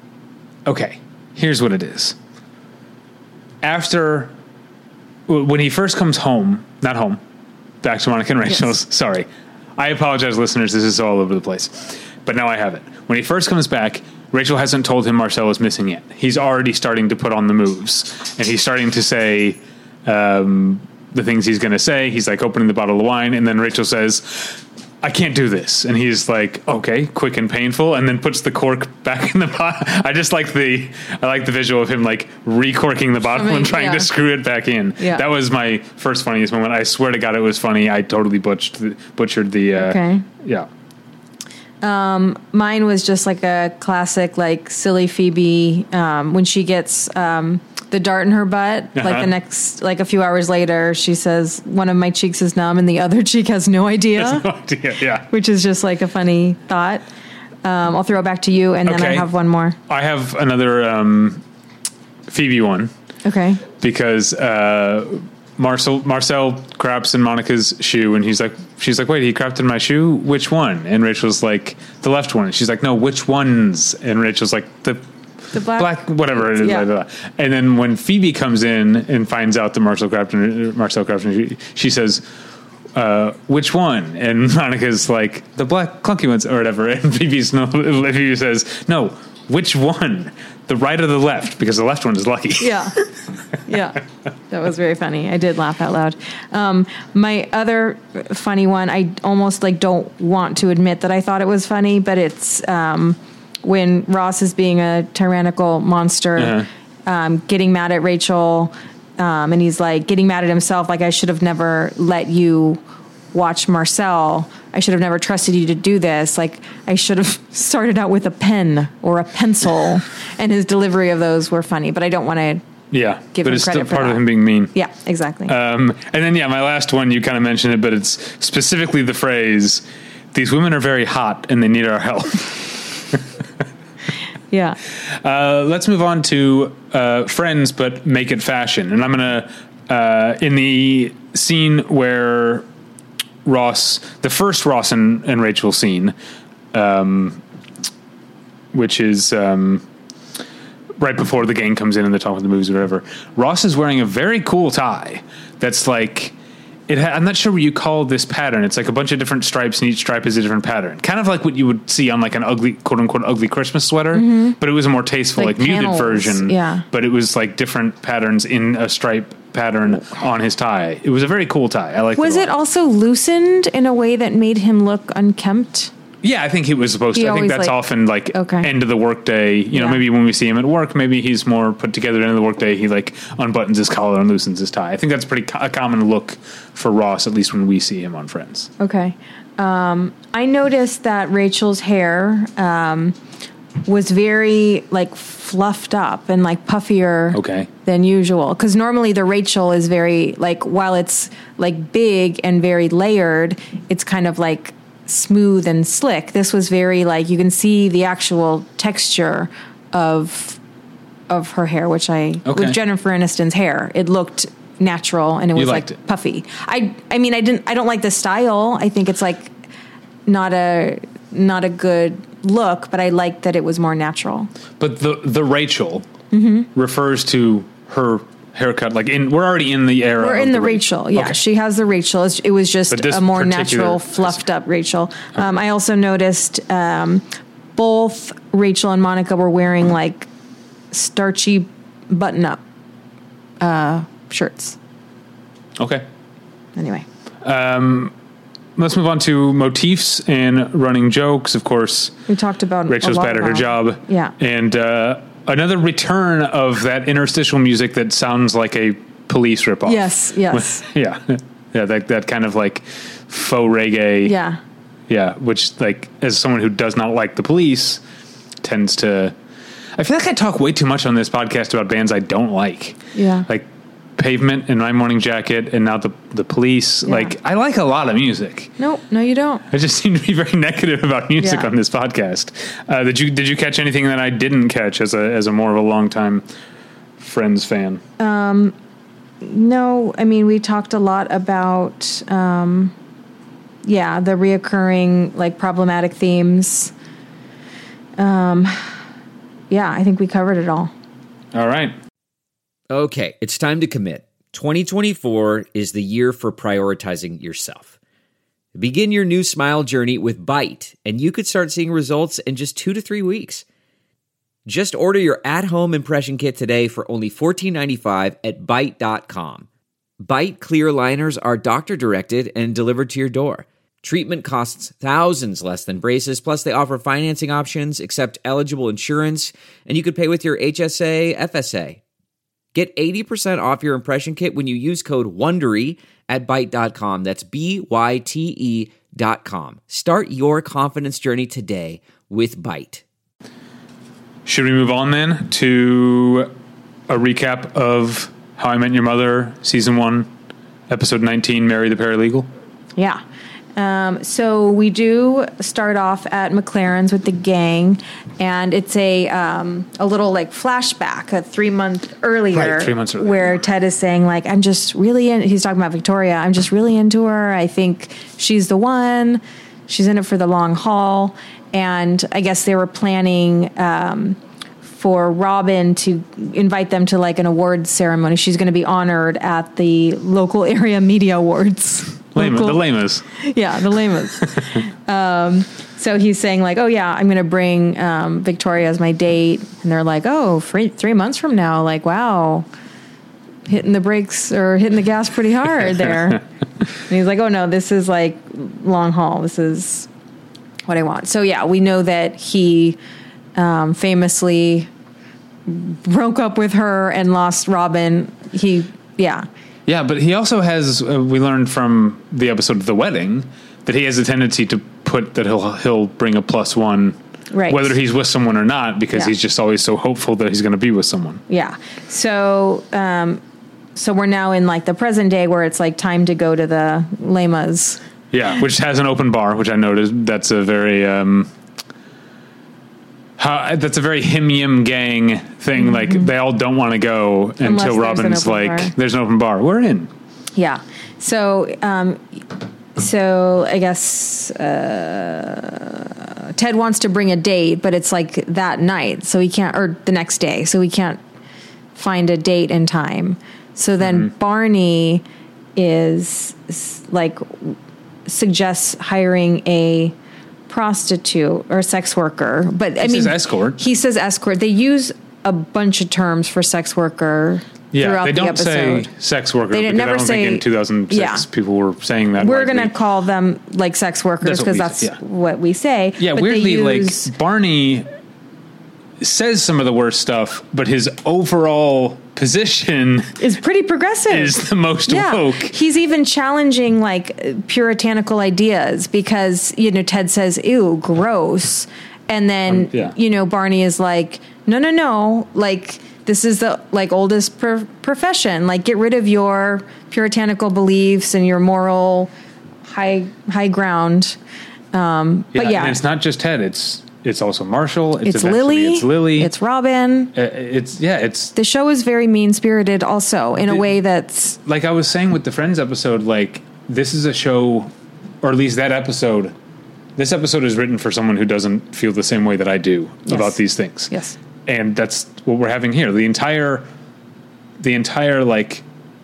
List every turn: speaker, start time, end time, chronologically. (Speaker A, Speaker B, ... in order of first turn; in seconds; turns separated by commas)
Speaker A: 0.7-2.2, Speaker A: 3.6-4.3, Speaker A: 5.3-7.2, Speaker A: 7.8-40.7, Speaker B: 33.3-34.1, Speaker B: 35.0-35.2, Speaker B: 39.8-40.3, Speaker B: 41.8-54.5, Speaker A: 49.0-49.3, Speaker A: 54.2-55.3, Speaker B: 55.3-57.0, Speaker B: 57.6-59.8, Speaker A: 58.9-59.3, Speaker A: 59.9-61.4, Speaker A: 62.3-62.9, Speaker B: 63.2-63.6, Speaker A: 63.8-75.0, Speaker B: 75.5-76.9, Speaker A: 75.8-82.2, Speaker A: 82.9-93.1, Speaker B: 92.6-93.0, Speaker B: 93.7-112.8, Speaker A: 106.4-106.7, Speaker B: 113.3-122.6, Speaker A: 122.9-124.7, Speaker B: 123.3-125.5, Speaker A: 125.5-133.2, Speaker B: 134.5-134.8, Speaker A: 135.0-142.7, Speaker A: 143.4-146.1, Speaker A: 146.7-147.4, Speaker A: 148.7-149.8, Speaker A: 151.0-156.3, Speaker A: 156.9-172.5, Speaker B: 164.1-164.6, Speaker B: 165.4-166.8, Speaker B: 172.2-175.9, Speaker A: 176.2-188.7, Speaker B: 177.1-177.8, Speaker B: 178.3-178.7, Speaker B: 179.7-180.0, Speaker B: 188.8-193.2, Speaker B: 193.8-210.6, Speaker A: 197.3-197.7, Speaker B: 211.3-219.5, Speaker A: 212.4-212.8, Speaker A: 215.6-215.9, Speaker B: 220.3-224.5, Speaker A: 224.8-226.1, Speaker B: 226.3-226.7, Speaker A: 226.7-231.4, Speaker B: 230.2-240.3, Speaker A: 232.9-234.4, Speaker B: 240.9-242.6, Speaker B: 243.6-244.8, Speaker A: 245.8-246.1, Speaker B: 246.8-247.1, Speaker A: 247.4-248.1, Speaker A: 248.8-252.2, Speaker B: 252.3-254.3, Speaker A: 252.9-264.4, Speaker B: 259.9-260.9, Speaker B: 264.2-264.6, Speaker A: 265.1-268.0, Speaker A: 268.6-269.3, Speaker A: 270.0-278.7, Speaker B: 273.1-273.5, Speaker B: 277.1-277.3, Speaker B: 278.8-279.6, Speaker A: 279.7-286.4, Speaker B: 281.4-281.7, Speaker A: 287.2-288.0, Speaker B: 288.2-288.8, Speaker B: 289.4-292.9, Speaker B: 293.8-296.9, Speaker B: 298.2-298.9, Speaker B: 299.7-300.9, Speaker A: 301.5-301.9, Speaker C: 302.9-307.9, Speaker C: 308.8-313.6, Speaker C: 314.7-319.7, Speaker C: 320.2-332.0, Speaker C: 332.7-343.0, Speaker A: 344.5-346.5, Speaker A: 347.1-350.3, Speaker A: 350.9-352.5, Speaker B: 353.8-392.7, Speaker A: 362.5-363.6, Speaker A: 382.3-383.2, Speaker B: 393.7-396.4, Speaker B: 397.0-400.1, Speaker B: 400.9-403.0, Speaker B: 403.6-404.9, Speaker B: 405.7-409.5, Speaker A: 409.9-417.2, Speaker B: 417.5-417.9, Speaker A: 417.7-421.4, Speaker B: 421.5-423.4, Speaker B: 424.0-428.0, Speaker A: 428.3-431.5, Speaker A: 433.4-440.1, Speaker B: 437.6-438.9, Speaker B: 440.6-442.4, Speaker B: 443.0-451.2, Speaker B: 451.9-455.2, Speaker B: 455.8-460.1, Speaker B: 460.7-469.1, Speaker A: 463.0-463.8, Speaker A: 467.9-472.9, Speaker B: 469.7-471.5, Speaker B: 472.4-477.3, Speaker A: 474.4-475.2, Speaker A: 476.2-478.1, Speaker A: 479.2-483.4, Speaker B: 483.4-502.3, Speaker A: 484.3-485.8, Speaker A: 492.7-493.1, Speaker B: 502.9-504.4, Speaker B: 504.9-506.0, Speaker A: 505.5-509.5, Speaker B: 508.2-510.3, Speaker A: 510.4-511.5, Speaker B: 511.6-514.6, Speaker A: 514.6-517.9, Speaker A: 518.4-519.5, Speaker A: 520.2-524.1, Speaker B: 523.3-523.6, Speaker B: 524.1-524.4, Speaker A: 524.7-526.9, Speaker A: 527.8-528.8